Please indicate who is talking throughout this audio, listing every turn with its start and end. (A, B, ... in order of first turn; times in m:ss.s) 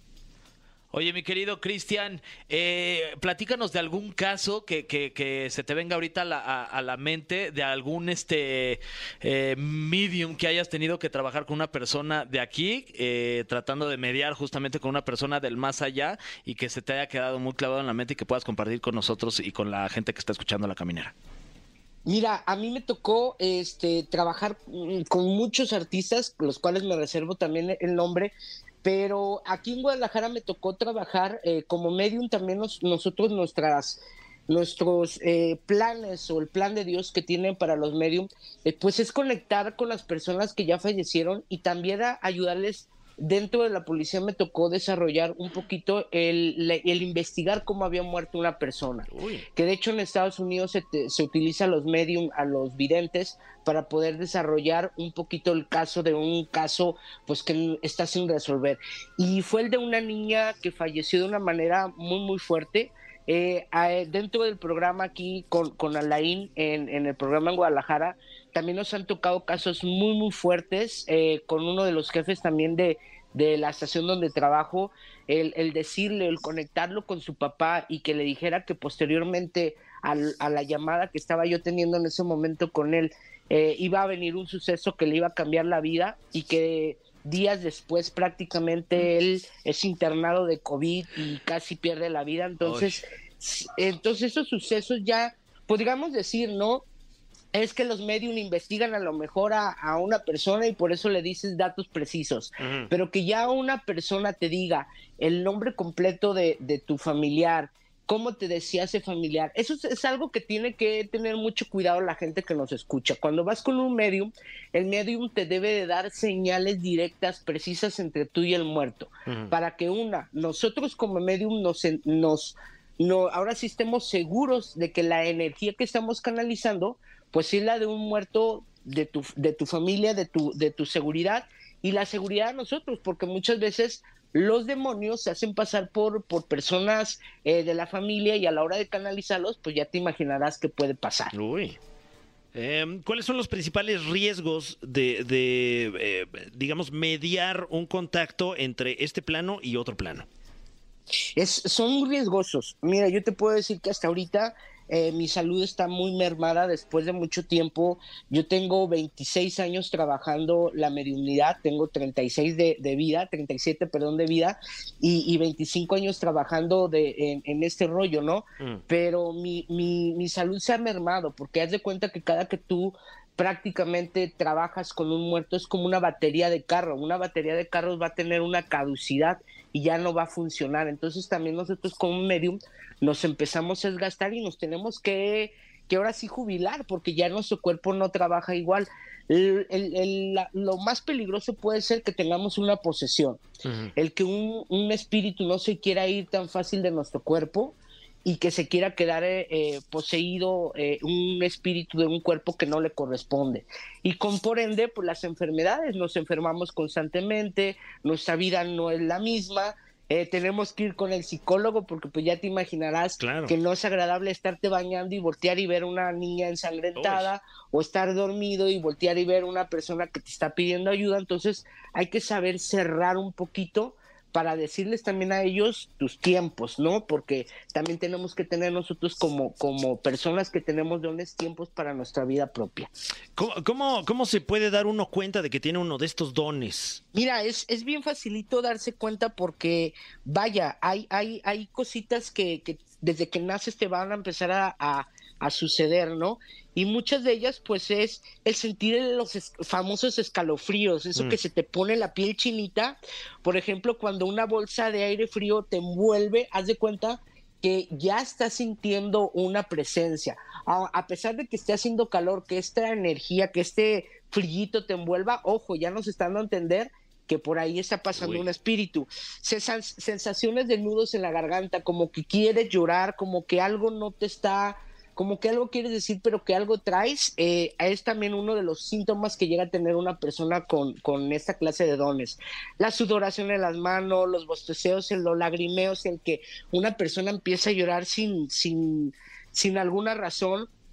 0:00.9-0:21.1 A
0:22.0-0:28.3 B
0:28.8-1:36.8 B
0:49.1-0:49.4 C
1:37.5-2:21.3 B
1:42.6-1:42.9 C
1:59.3-1:59.5 C
2:21.3-2:21.8 C
2:22.5-2:30.3 C
2:31.4-3:13.4 B
3:13.6-3:13.9 C
3:14.0-3:52.9 B
3:33.2-3:33.6 C
3:36.9-3:37.3 C
3:53.3-3:57.0 C
3:57.1-4:50.7 B
4:28.1-4:28.4 C